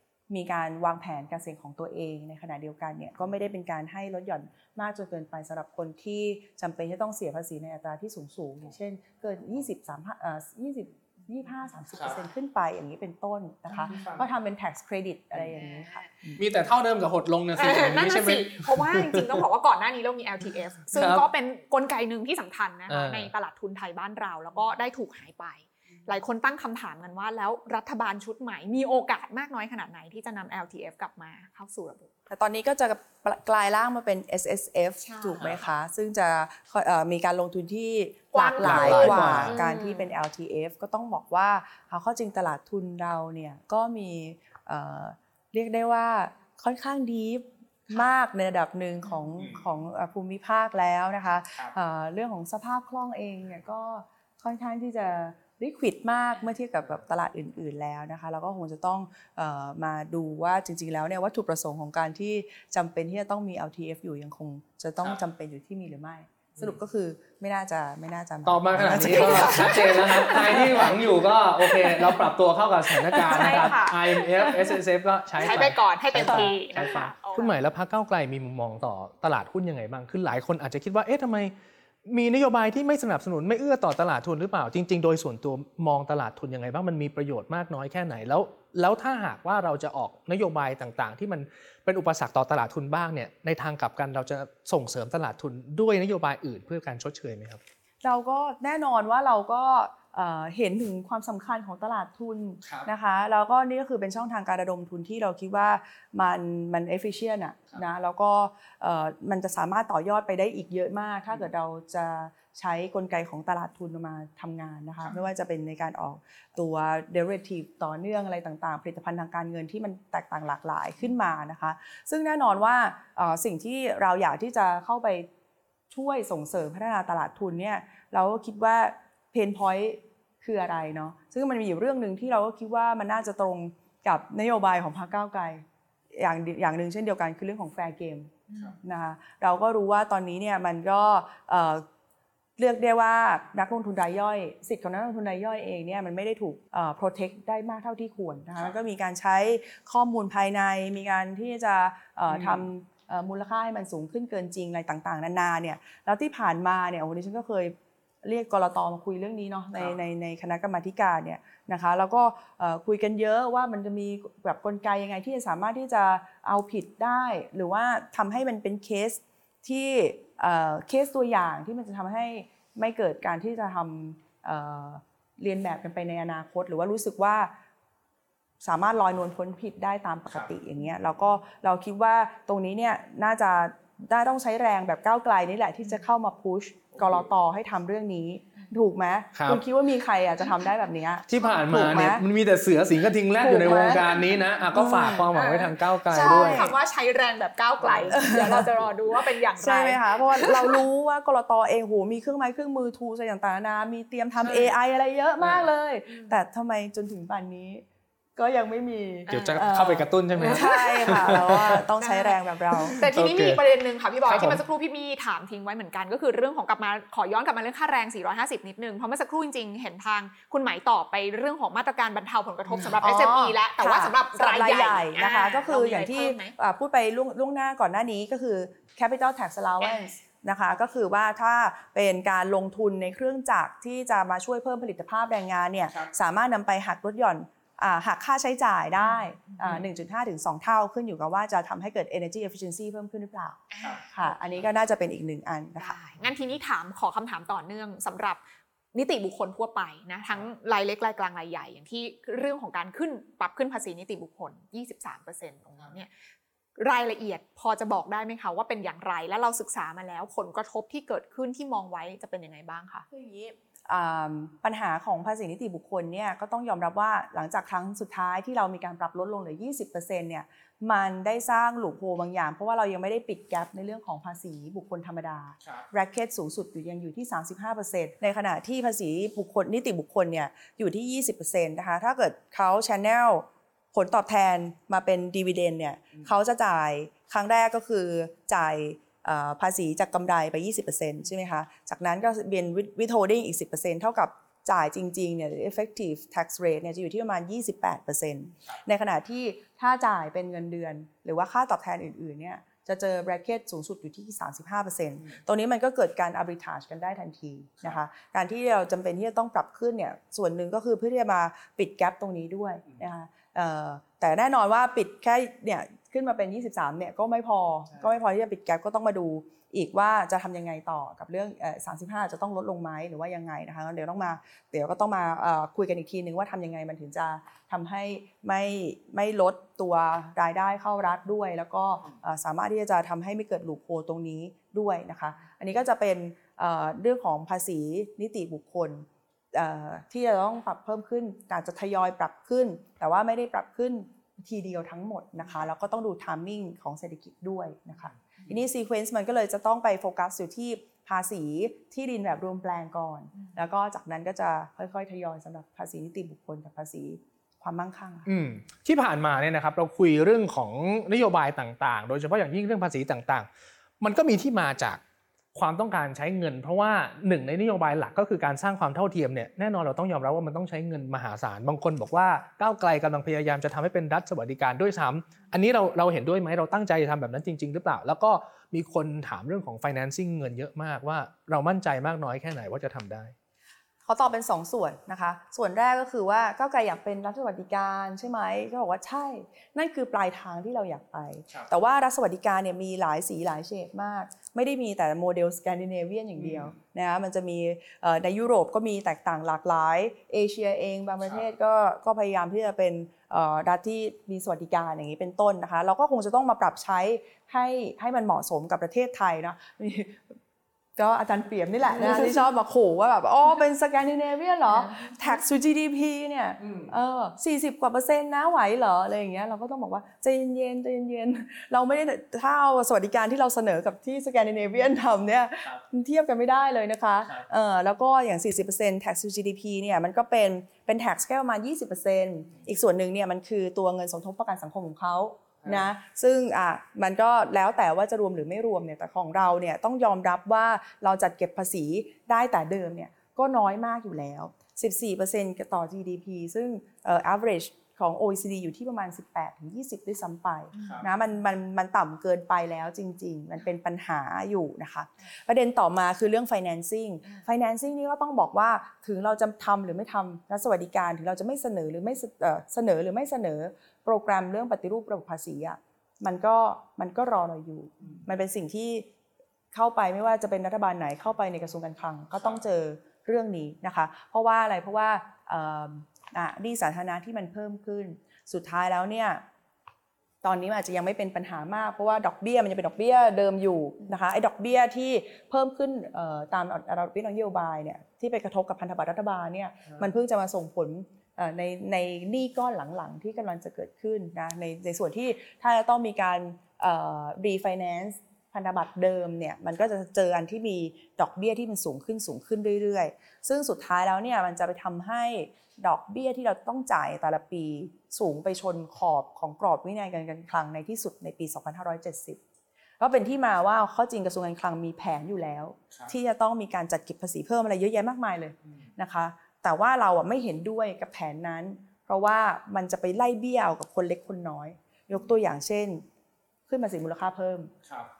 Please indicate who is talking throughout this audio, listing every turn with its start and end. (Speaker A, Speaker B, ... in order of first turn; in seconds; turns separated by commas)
Speaker A: 0.3-16.4, Speaker B: 13.9-14.2, Speaker C: 15.5-16.2, Speaker B: 16.4-19.4, Speaker C: 17.6-32.1, Speaker B: 20.9-21.3, Speaker B: 22.9-23.3, Speaker A: 32.3-70.9, Speaker C: 35.0-35.5, Speaker C: 38.3-40.1, Speaker B: 38.6-39.5, Speaker B: 68.5-81.5, Speaker C: 69.1-70.8, Speaker C: 71.8-72.1, Speaker C: 73.1-74.8, Speaker C: 75.4-77.5, Speaker A: 76.3-76.9, Speaker B: 82.0-97.6, Speaker A: 98.0-125.3, Speaker A: 125.9-135.6, Speaker A: 136.1-141.8, Speaker C: 138.5-138.8, Speaker A: 142.6-177.5, Speaker B: 152.3-152.6, Speaker A: 178.6-192.2, Speaker B: 189.3-189.6, Speaker B: 191.3-196.7, Speaker A: 193.4-194.1, Speaker C: 194.1-194.4, Speaker A: 194.7-195.3, Speaker C: 195.3-200.8, Speaker A: 196.1-196.7, Speaker A: 198.1-198.7, Speaker A: 199.6-207.8, Speaker B: 204.4-204.7, Speaker C: 206.1-206.4, Speaker A: 208.4-213.0, Speaker C: 209.3-209.6, Speaker B: 209.3-211.8, Speaker C: 210.4-211.3, Speaker C: 212.0-226.5, Speaker B: 213.0-213.6, Speaker B: 214.3-214.6, Speaker A: 223.0-245.9, Speaker C: 229.8-230.1, Speaker C: 239.0-239.8, Speaker C: 243.7-244.6, Speaker C: 245.8-248.4, Speaker C: 248.9-256.1, Speaker C: 256.8-263.1, Speaker A: 263.1-358.3, Speaker B: 358.3-363.5, Speaker B: 364.0-365.0, Speaker B: 365.5-383.3, Speaker A: 384.1-410.3, Speaker B: 396.4-396.7, Speaker A: 410.9-469.1, Speaker B: 435.6-435.9, Speaker C: 450.7-451.1, Speaker A: 469.7-479.4, Speaker A: 480.4-512.4, Speaker A: 513.0-526.0, Speaker A: 526.7-527.7